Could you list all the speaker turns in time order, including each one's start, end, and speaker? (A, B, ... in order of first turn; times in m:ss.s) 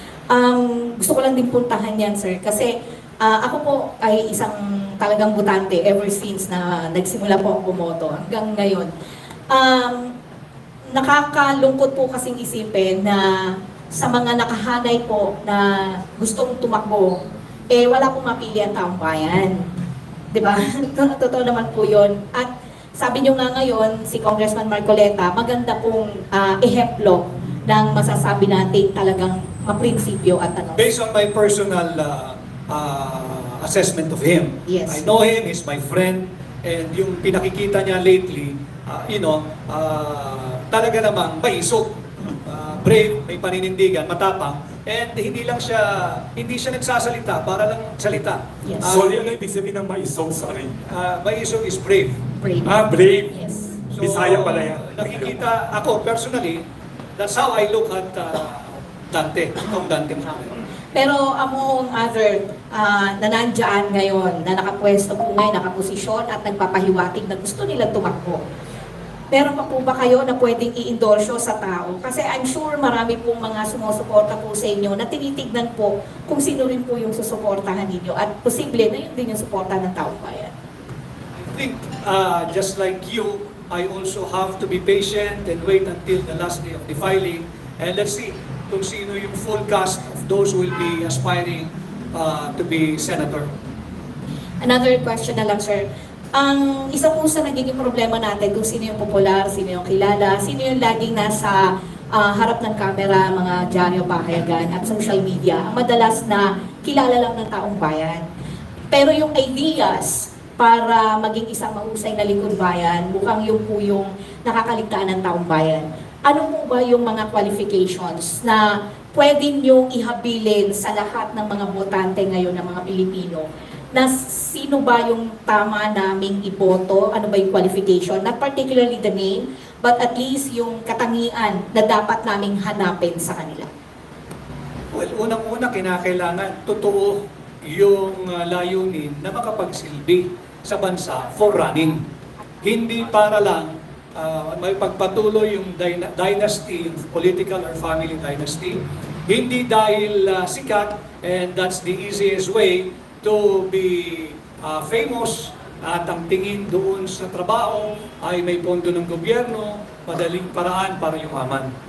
0:00.3-0:08.9 A
0:09.5-0:10.1 A
0:10.9-0:17.2 A
0:17.7-0:19.6 A
0:20.3-0:30.9 A
0:30.8-0:49.2 B
0:34.7-0:35.0 A
0:48.6-0:49.0 A
0:48.8-0:50.7 C
0:50.9-0:52.2 B
0:52.4-0:53.8 A
0:52.6-0:53.4 C
0:53.9-0:56.6 B
0:54.0-0:55.3 C
0:57.2-1:00.6 B
1:00.9-1:08.4 A
1:09.3-1:20.5 A
1:21.4-1:33.5 B
1:34.6-1:41.6 A
1:42.1-1:48.2 A
1:48.9-2:13.7 A
2:14.9-2:22.0 B
2:22.6-2:41.7 B